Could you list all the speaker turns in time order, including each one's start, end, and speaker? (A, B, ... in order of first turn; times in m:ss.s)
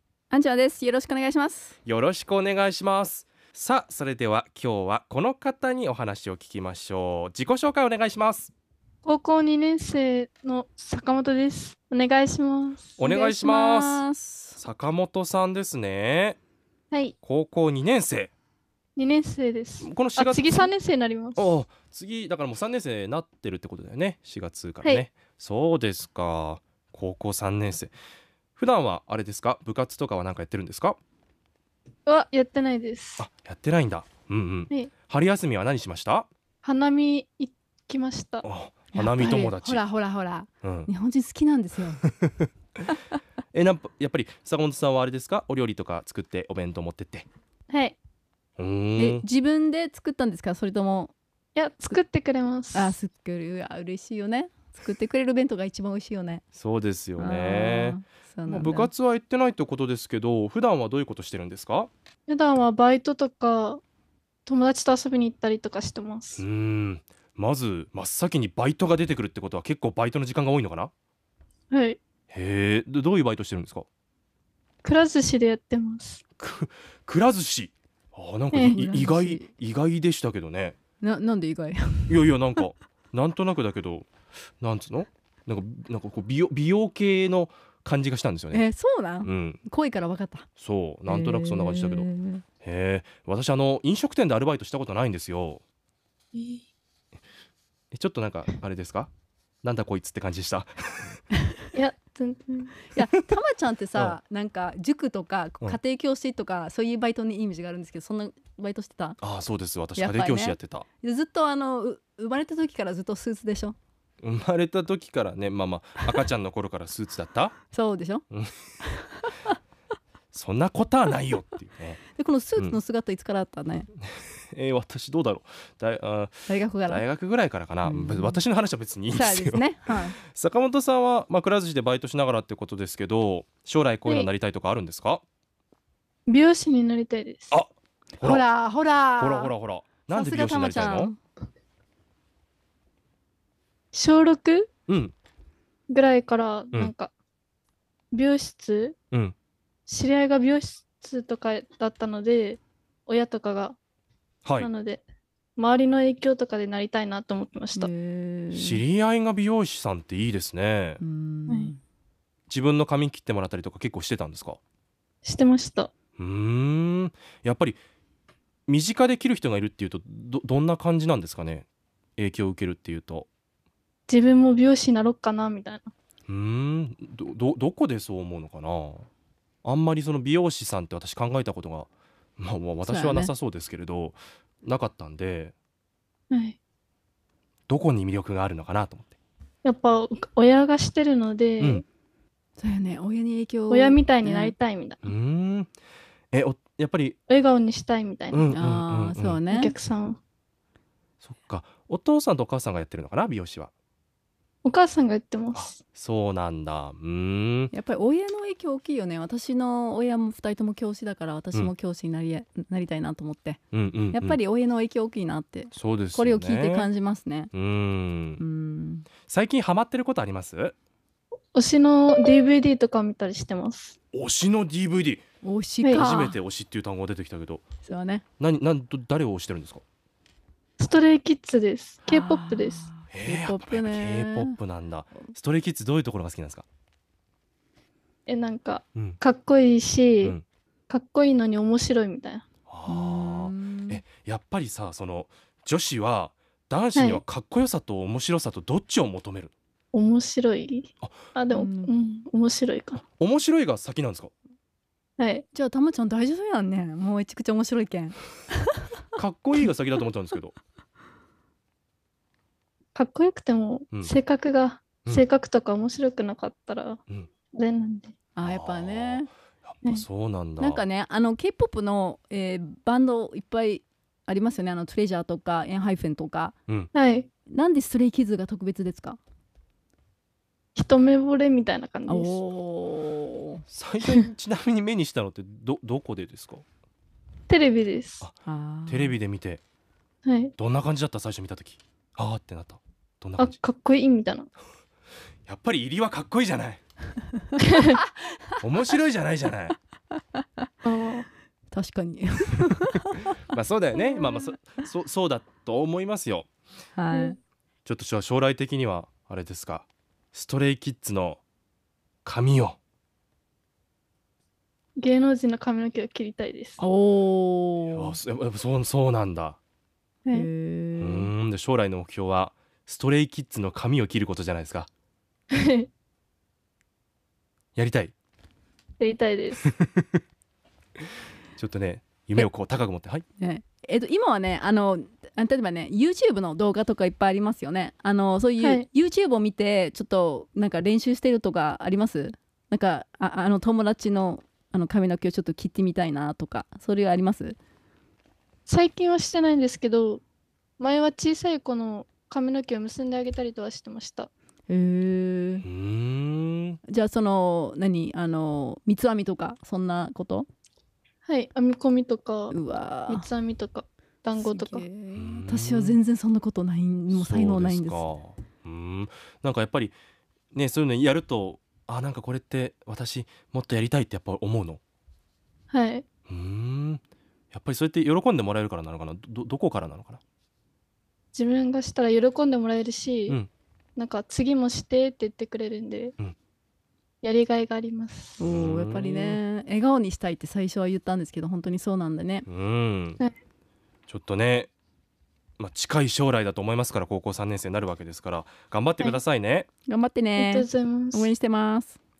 0:00.3-0:01.7 A
0:01.8-0:08.5 B
0:09.0-0:13.0 C
0:13.0-0:14.0 B
0:13.0-0:14.6 A
0:14.6-0:16.4 B
0:16.9-0:17.2 C
0:17.2-0:18.3 B
0:19.0-0:21.5 C
0:19.8-0:20.7 B
0:21.4-0:27.9 B
0:28.6-0:31.0 B
0:32.1-0:33.2 C
0:33.2-0:36.3 B
0:36.6-0:38.5 C
0:38.4-0:39.8 B
0:38.9-0:42.0 A
0:40.6-0:40.9 B
0:43.5-0:47.2 B
0:47.7-0:48.0 C
0:48.6-0:49.2 B
0:49.0-0:51.1 A
0:51.5-0:52.9 C
0:52.7-0:56.4 A
0:56.5-1:01.9 B
0:57.2-0:58.9 A
1:02.3-1:03.8 C
1:04.4-1:06.4 C
1:06.4-1:10.9 B
1:11.7-1:12.0 C
1:12.3-1:13.8 B
1:14.8-1:16.2 C
1:16.4-1:20.8 B
1:18.5-1:18.8 C
1:18.7-1:19.5 A
1:21.0-1:22.3 A
1:22.1-1:24.1 B
1:24.6-1:28.7 B
1:28.5-1:30.5 A
1:29.2-1:29.6 B
1:30.6-1:32.1 B
1:31.1-1:32.4 A
1:32.6-1:35.6 B
1:36.3-1:36.6 C
1:37.9-1:39.1 B
1:39.6-1:41.2 B
1:41.7-1:42.8 C
1:42.9-1:49.2 A
1:49.2-1:50.9 B
1:50.0-1:53.8 A
1:54.2-1:57.6 B
1:57.7-1:58.2 A
1:58.8-1:59.5 A
2:00.3-2:02.0 B
2:02.1-2:03.9 A
2:04.0-2:15.2 B
2:06.5-2:07.0 A
2:07.8-2:08.4 A
2:09.1-2:10.2 A
2:16.3-2:17.6 C
2:17.5-2:18.4 B
2:18.2-2:19.5 A
2:19.2-2:21.1 B
2:20.1-2:21.2 A
2:23.9-2:24.7 C
2:24.9-2:25.1 B
2:25.9-2:27.1 C
2:28.1-2:29.0 C
2:29.9-2:33.8 C
2:34.6-2:35.0 C
2:35.6-2:37.9 C
2:37.7-2:38.8 A
2:38.5-2:41.0 B
2:41.0-2:41.8 A
2:42.5-2:44.6 B
2:45.2-2:45.9 C
2:46.2-2:47.8 B
2:48.7-2:53.3 B
2:54.1-2:55.9 C
2:56.3-2:59.1 B
2:59.6-3:05.5 B
3:02.8-3:03.3 A
3:06.3-3:06.6 C
3:07.7-3:09.1 B
3:09.6-3:11.8 C
3:12.6-3:14.5 A
3:13.7-3:15.1 C
3:15.0-3:15.7 B
3:16.3-3:17.2 B
3:17.3-3:18.5 C
3:18.3-3:19.4 B
3:18.5-3:19.7 A
3:19.5-3:20.2 C
3:21.2-3:23.7 B
3:24.6-3:25.8 C
3:25.5-3:27.7 B
3:27.7-3:33.6 A
3:33.7-3:34.4 B
3:34.1-3:37.5 A
3:35.7-3:36.9 B
3:37.5-3:38.4 B
3:38.4-3:39.1 A
3:39.3-3:40.7 B
3:41.5-3:44.0 C
3:44.1-3:45.2 B
3:45.4-3:46.4 A
3:45.8-3:46.1 C
3:45.9-3:47.6 B
3:47.8-3:48.2 A
3:48.4-3:49.8 B
3:50.8-3:52.9 C
3:52.0-3:54.6 A
3:53.1-3:56.6 B
3:58.3-4:00.4 C
4:00.9-4:02.4 C
4:02.7-4:09.5 B
4:02.8-4:04.0 A
4:06.9-4:07.2 C
4:09.9-4:13.0 C
4:11.5-4:11.9 A
4:13.2-4:14.3 B
4:15.2-4:15.4 C
4:15.5-4:18.9 A
4:19.2-4:20.6 B
4:22.9-4:27.0 C
4:27.5-4:28.1 C
4:28.3-4:29.3 A
4:28.4-4:30.8 B
4:30.6-4:36.6 A
4:36.9-4:37.3 C
4:37.5-4:39.2 A
4:40.7-4:42.4 C
4:42.1-4:43.6 A
4:43.7-4:46.6 B
4:47.5-4:48.2 C
4:48.4-4:49.2 A
4:48.9-4:49.6 B
4:50.2-4:50.5 C
4:50.6-4:53.6 B
4:53.4-4:54.5 C
4:55.5-4:56.8 B
4:57.6-4:58.0 C
4:58.6-4:59.7 B
5:00.4-5:00.7 A
5:00.8-5:01.3 C
5:01.7-5:03.4 A
5:03.5-5:06.5 B
5:04.0-5:04.6 A
5:07.0-5:07.4 A
5:07.1-5:07.4 C
5:07.8-5:11.4 B
5:12.2-5:12.8 B
5:15.0-5:16.8 C
5:16.8-5:18.2 A
5:17.9-5:19.6 B
5:20.3-5:21.3 A
5:21.0-5:24.9 B
5:25.5-5:25.9 C
5:27.8-5:28.1 B
5:29.0-5:29.6 C
5:29.6-5:30.2 B
5:31.6-5:33.2 B
5:33.4-5:47.6 A
5:38.6-5:38.9 C
5:48.7-5:50.2 C
5:50.8-5:54.3 C
5:54.7-5:55.6 A
5:55.6-5:56.8 B
5:56.9-6:00.5 A
6:01.2-6:02.6 C
6:02.5-6:03.3 A
6:03.1-6:04.8 C
6:04.4-6:08.0 A
6:05.1-6:06.0 B
6:07.1-6:10.0 B
6:10.5-6:14.8 B
6:15.7-6:16.0 C
6:16.3-6:20.2 B
6:21.3-6:23.4 C
6:24.0-6:26.1 C
6:27.2-6:28.6 C
6:28.4-6:32.4 A
6:28.4-6:29.4 B
6:32.5-6:33.2 B
6:34.1-6:34.7 B
6:35.6-6:39.7 B
6:39.9-6:41.9 A
6:40.4-6:41.3 C